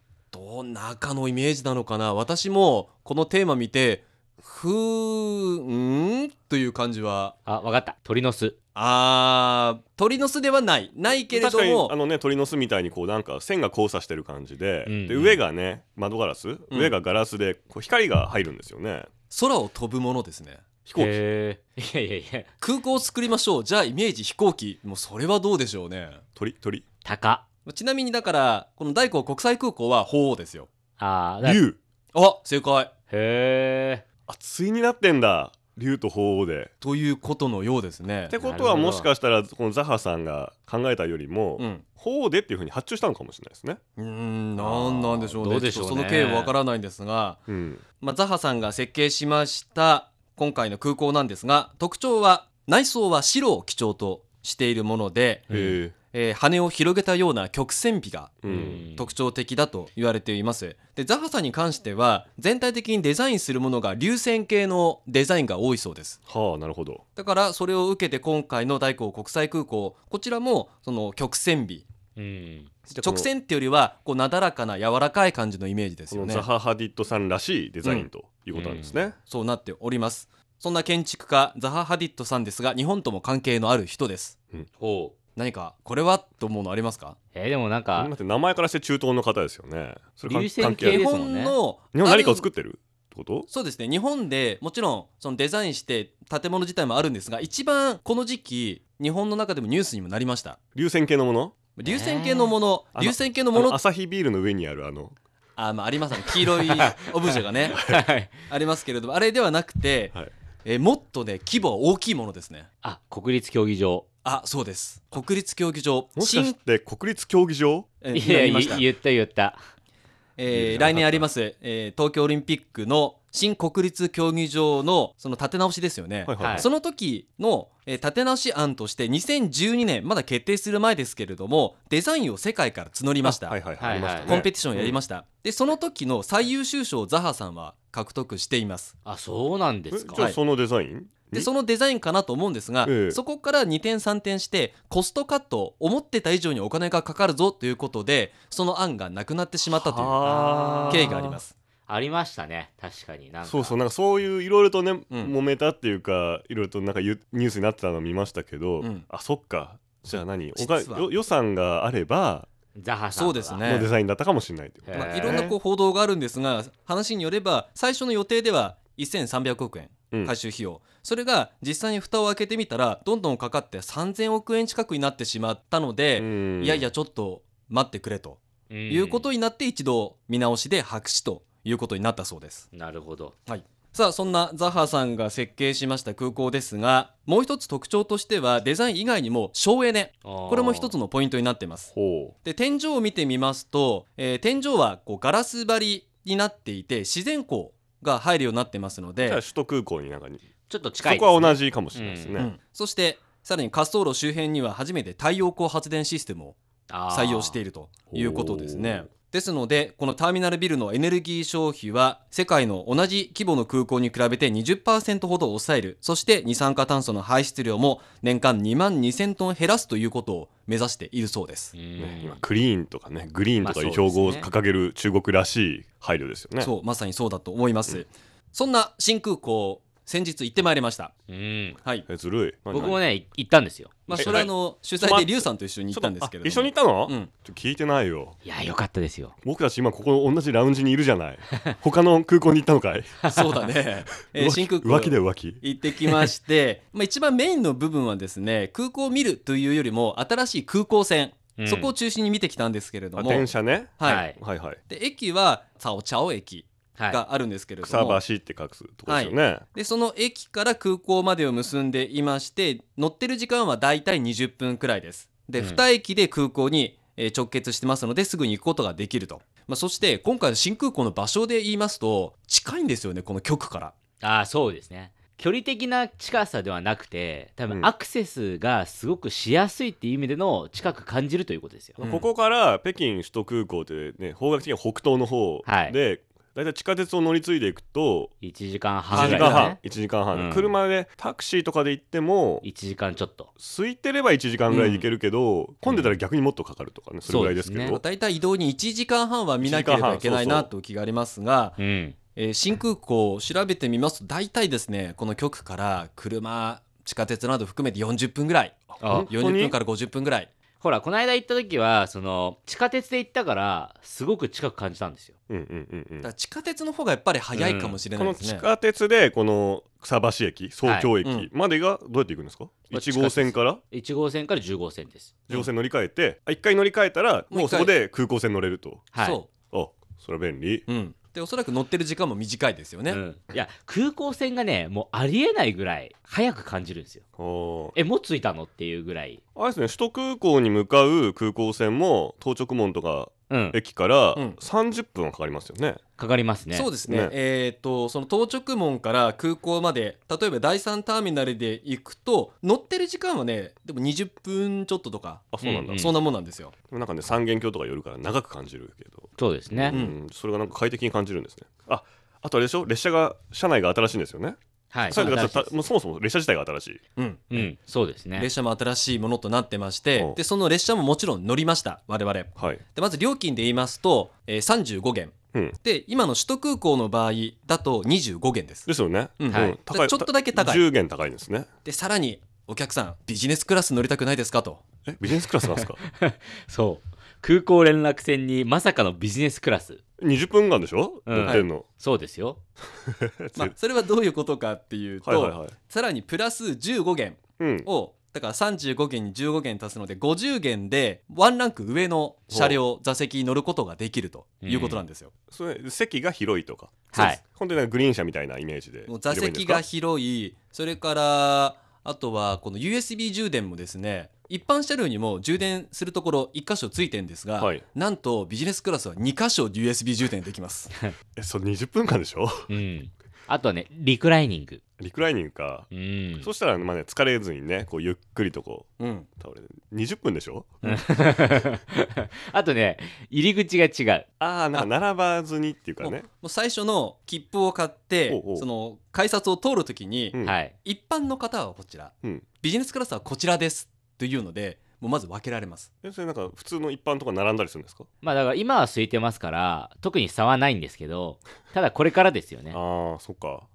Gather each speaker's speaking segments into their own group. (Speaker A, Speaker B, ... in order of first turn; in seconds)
Speaker A: 0.3-7.3, 8.7-11.9, 16.7-16.9, 19.3-20.6, 22.6-26.2, 27.6-30.7, 32.1-32.9, 36.8-38.3, 41.6-41.8, 44.0-47.4, 48.0-55.5, 56.1-66.2, 67.2-71.8, 73.0-76.5, 79.2-84.4, 85.3-87.2, 90.8-92.5, 93.5-100.6, 101.8-103.8, 105.6-107.8, 108.5-112.7, 114.2-116.6, 118.0-118.8, 120.4-133.6, 134.2-138.9, 141.3-150.2, 150.9-151.5, 158.8-159.1, 160.5-161.1, 163.1-163.9, 164.9-182.7, 183.5-191.9, 192.4-199.4, 202.3-206.6, 207.1-221.7, 226.6-231.1, 234.1-237.3, 243.3-254.3, 254.8-258.2, 259.1-273.9, 282.0-282.3, 289.1-289.7, 294.7-295.1, 297.9-301.8, 302.4-310.5, 316.2-318.7, 321.2-321.5, 327.5-327.9, 329.2-329.5, 330.9-333.2, 346.7-356.7, 359.9-360.1, 367.1-367.7, 368.3-378.9, 379.4-380.9, 381.8-384.8, 391.4-391.7, 393.6-405.3, 409.1-420.9, 429.0-429.3, 436.0-445.9
Speaker B: 7.5-8.6, 14.8-15.4, 20.9-22.5, 27.0-27.4, 31.0-31.6, 33.1-34.0, 38.4-39.1, 44.6-46.5, 55.5-55.8, 58.5-59.1, 72.2-72.7, 78.5-79.1, 84.8-85.1, 87.3-88.1, 90.2-91.6, 101.8-102.5, 106.7-107.0, 107.7-108.3, 112.8-114.0, 118.1-119.6, 126.4-126.7, 133.8-134.4, 139.0-140.2, 150.2-151.3, 151.9-153.8, 162.7-163.6, 164.8-165.5, 178.7-179.3, 182.7-183.3, 190.2-190.9, 200.7-202.4, 206.9-207.6, 221.7-222.4, 223.6-224.5, 231.3-231.8, 232.7-234.4, 238.4-239.3, 243.2-243.7, 251.6-251.9, 254.0-254.4, 265.6-265.8, 274.2-282.0, 285.6-285.9, 288.4-289.8, 290.3-290.7, 292.6-293.5, 295.9-296.1, 297.3-298.0, 301.8-302.1, 309.0-309.3, 310.8-315.3, 317.5-318.0, 320.8-321.1, 322.9-325.4, 329.1-329.4, 333.1-337.2, 337.9-339.4, 343.5-343.8, 346.2-346.9, 355.6-356.1, 359.4-360.0, 364.9-365.8, 367.5-368.5, 379.5-379.8, 385.6-390.0, 391.3-392.6, 404.6-405.0, 407.1-407.4, 422.7-424.8, 425.9-426.5, 430.8-434.2, 440.4-440.7, 448.2-452.8
Speaker C: 11.2-19.1, 20.9-21.1, 26.4-26.8, 31.4-31.8, 34.3-36.7, 38.3-43.8, 47.5-47.8, 55.5-55.9, 58.4-58.8, 66.3-67.0, 72.9-73.3, 76.1-79.2, 88.0-91.1, 91.9-93.5, 100.7-101.5, 102.9-105.2, 107.7-108.0, 116.2-117.9, 120.5-121.3, 126.2-126.7, 133.2-135.0, 139.9-141.5, 142.8-143.2, 149.7-151.4, 153.4-162.5, 163.6-165.5, 176.2-176.9, 191.9-192.3, 199.2-200.4, 201.0-202.5, 208.1-209.1, 222.0-226.7, 232.1-233.0, 234.2-238.4, 239.4-243.2, 244.2-246.3, 253.2-254.8, 257.8-259.6, 282.0-288.3, 289.1-292.6, 293.6-298.0, 299.6-300.7, 308.9-309.8, 315.5-316.3, 318.2-323.8, 325.5-329.0, 329.7-330.9, 337.4-337.9, 339.6-346.0, 347.1-347.3, 355.5-356.1, 356.9-364.6, 365.1-367.0, 372.6-372.8, 378.9-381.7, 385.1-386.0, 390.2-391.9, 393.1-393.7, 395.2-395.7, 397.6-397.9, 402.5-402.8, 405.5-409.8, 417.6-417.8, 421.4-422.7, 425.0-425.9, 426.4-430.8, 434.4-436.2, 438.3-438.6, 446.0-448.1, 452.7-453.7